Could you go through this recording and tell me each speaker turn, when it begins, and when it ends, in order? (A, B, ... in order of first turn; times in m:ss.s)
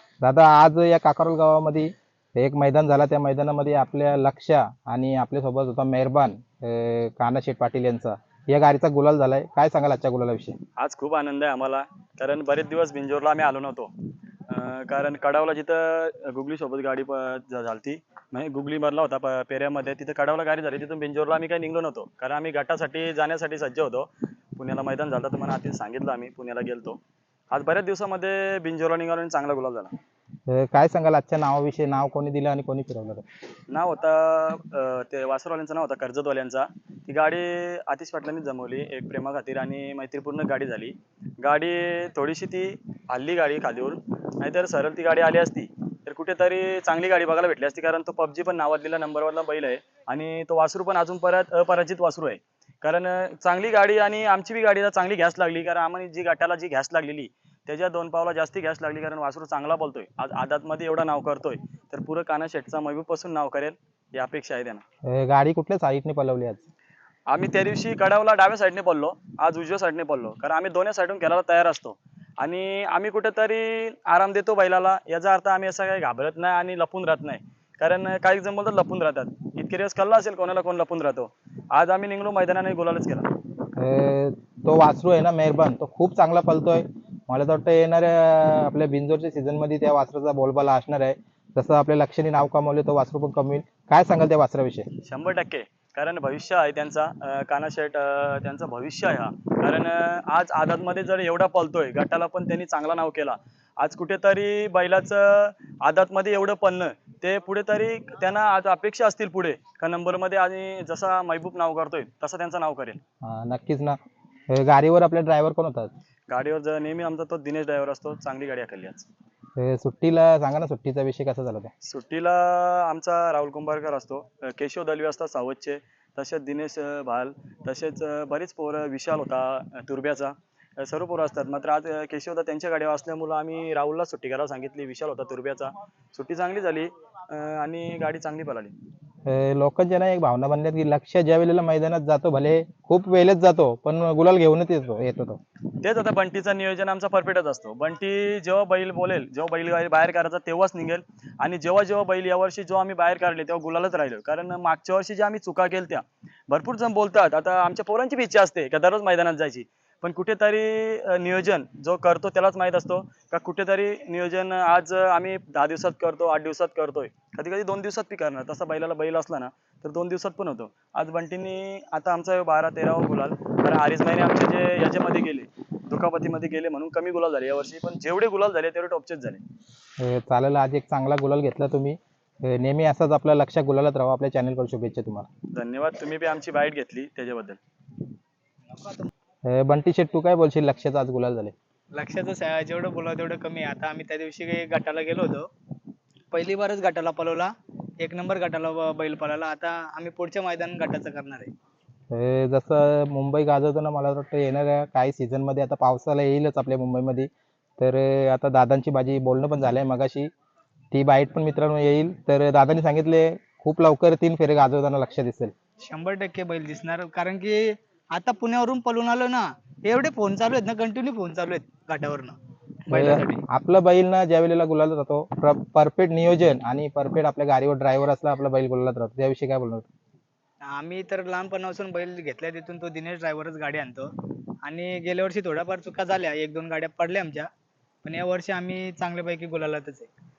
0:00.2-0:10.6 A
0:10.8-0:13.9 B
0:14.5-0:27.0 B
0:27.5-0:29.9 B
0:30.5-0:33.2 A
0:33.7-1:04.8 B
1:05.1-1:06.6 A
1:07.3-1:23.3 B
1:23.8-1:34.8 A
1:35.0-1:53.0 B
1:53.2-1:54.0 A
1:54.5-1:55.9 A
1:56.3-1:59.1 B
1:59.6-2:01.7 A
2:01.8-2:18.7 B
2:19.3-2:25.4 A
2:25.8-2:59.4 B
3:00.0-3:05.3 A
3:05.5-3:07.6 B
3:08.7-3:09.1 C
3:09.5-3:11.5 A
3:11.9-3:15.5 C
3:16.3-3:17.5 C
3:18.0-3:21.5 C
3:22.1-3:30.3 A
3:30.9-3:35.5 A
3:35.8-3:37.6 C
3:38.1-3:42.3 C
3:42.9-3:43.4 C
3:42.9-3:49.8 A
3:50.7-3:54.1 C
3:54.6-3:57.5 C
3:58.0-4:00.1 C